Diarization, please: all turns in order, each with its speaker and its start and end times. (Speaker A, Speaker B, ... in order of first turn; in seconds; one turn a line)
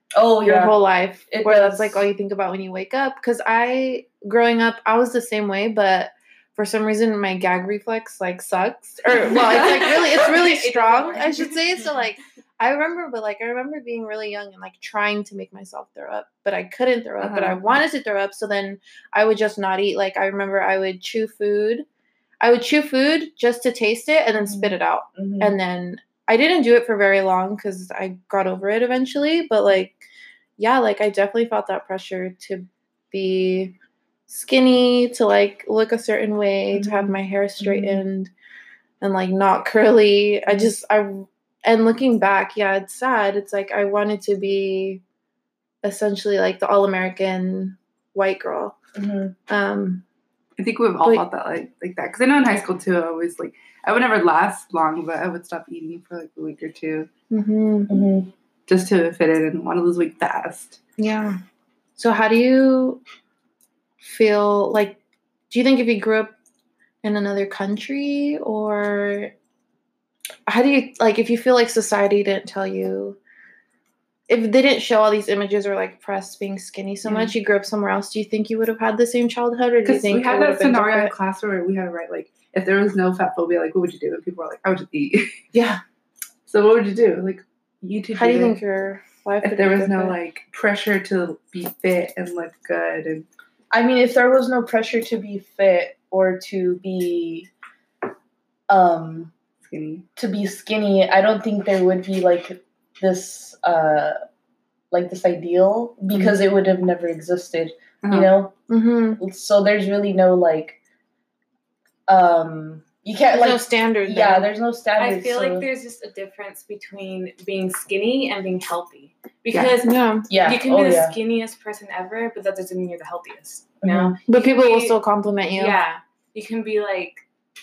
Speaker A: 0.1-0.8
Speaker B: 0.4-21.9
Speaker A: 1.3-2.1
Speaker C: 9.5-11.9
Speaker D: 9.8-10.2
Speaker D: 17.2-17.6
Speaker B: 22.4-30.0
Speaker A: 24.4-25.6
Speaker B: 30.6-33.7
Speaker B: 34.3-38.3
Speaker A: 36.7-38.0
Speaker B: 39.0-45.0
Speaker B: 45.8-48.8
Speaker A: 49.0-49.4
Speaker B: 49.5-50.0
Speaker D: 50.6-57.1
Speaker B: 57.3-58.1
Speaker A: 57.9-58.3
Speaker D: 58.7-60.8
Speaker B: 61.0-61.4
Speaker B: 62.0-63.0
Speaker B: 64.0-65.0
Speaker B: 65.5-66.3
Speaker B: 67.0-69.3
Speaker B: 70.5-73.2
Speaker B: 74.3-81.1
Speaker D: 79.8-85.3
Speaker B: 85.5-85.8
Speaker D: 86.5-88.6
Speaker B: 88.2-90.2
Speaker D: 89.4-93.3
Speaker A: 93.7-97.5
Speaker A: 98.7-99.3
Speaker D: 99.6-100.0
Speaker A: 100.2-104.2
Speaker A: 104.9-108.6
Speaker D: 108.0-108.3
Speaker B: 108.7-109.2
Speaker A: 109.2-110.8
Speaker A: 112.1-115.7
Speaker B: 113.3-114.5
Speaker C: 115.0-125.0
Speaker B: 119.8-120.3
Speaker A: 120.3-121.2
Speaker A: 123.8-124.2
Speaker B: 124.3-125.8
Speaker C: 125.5-127.2